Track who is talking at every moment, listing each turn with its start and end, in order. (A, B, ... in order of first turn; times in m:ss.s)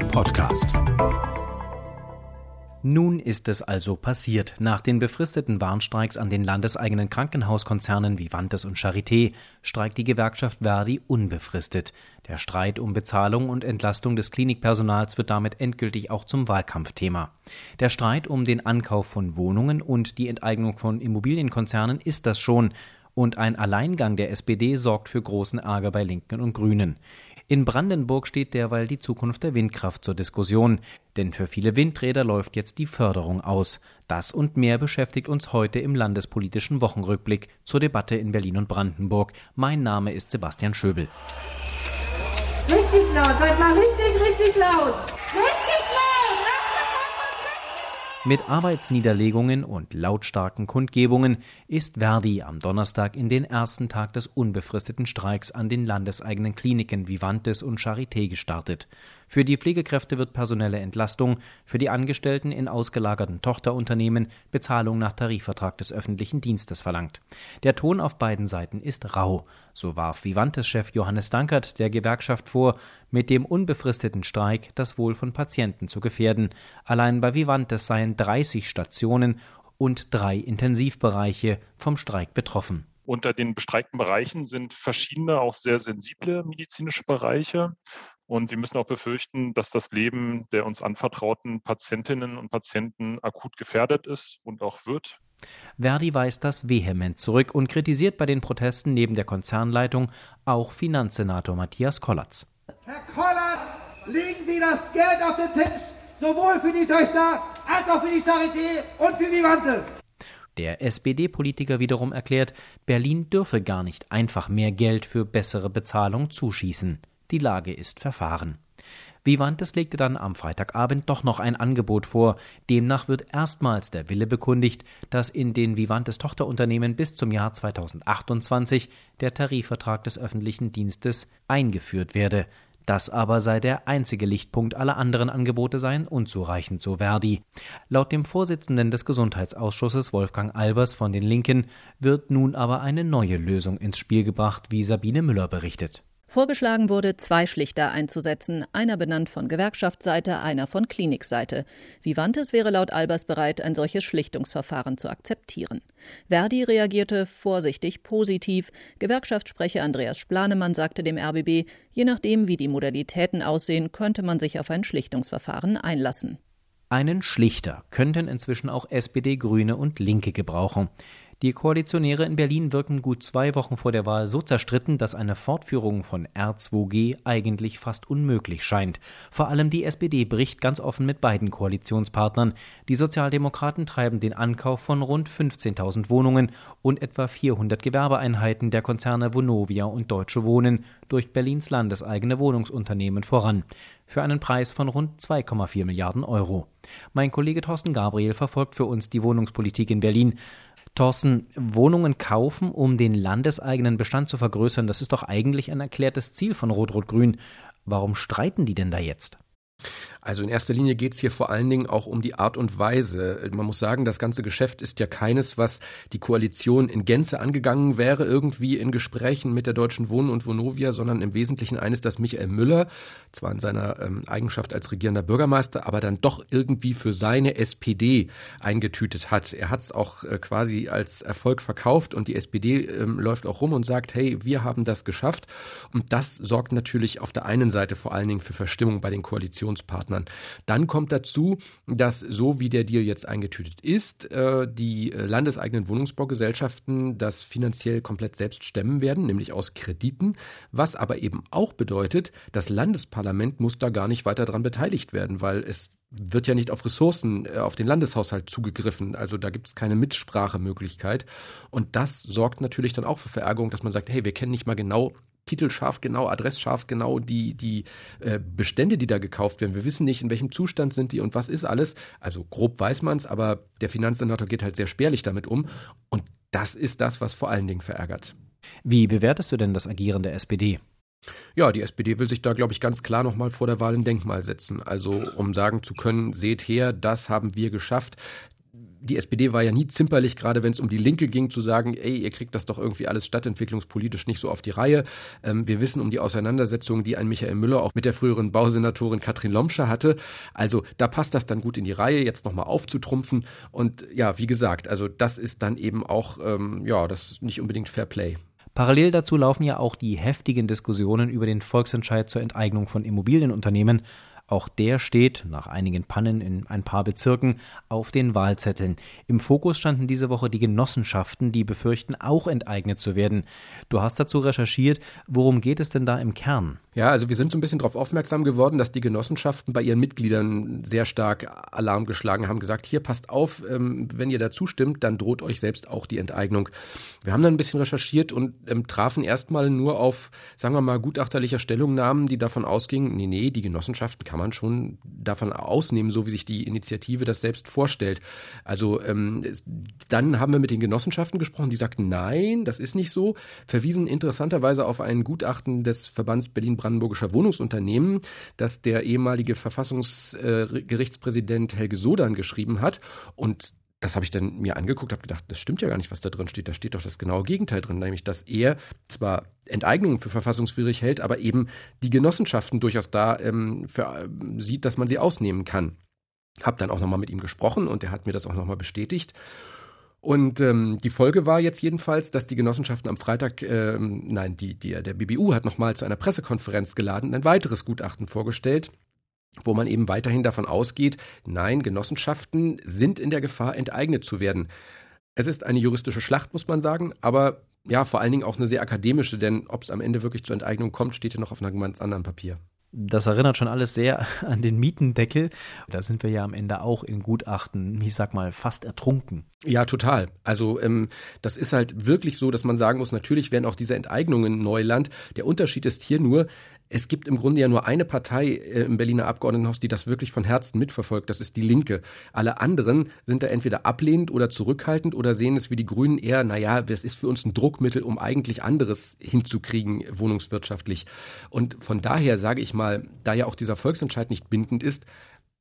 0:00.1-0:00.6 A
0:02.8-0:27.0 A
0:27.5-0:41.1 A
0:42.7-0:44.6 B
0:48.2-1:22.9 A
1:23.1-1:27.8 C
1:28.3-1:35.1 C
1:35.8-1:42.5 A
1:42.8-1:49.9 D
1:50.6-1:58.6 A
1:59.2-2:26.0 A
2:26.3-2:46.4 E
2:46.9-3:20.4 A
3:21.0-3:29.4 A
3:30.2-4:38.3 F
4:38.8-4:40.8 A
4:41.6-4:48.2 F
4:49.0-5:08.4 F
5:08.8-5:26.8 A
5:27.0-5:36.7 F
5:37.2-6:16.0 F
6:16.6-6:19.4 F
6:20.2-6:28.9 F
6:29.6-6:34.7 F
6:35.4-6:42.6 F
6:42.9-6:49.4 A
6:49.7-7:15.1 F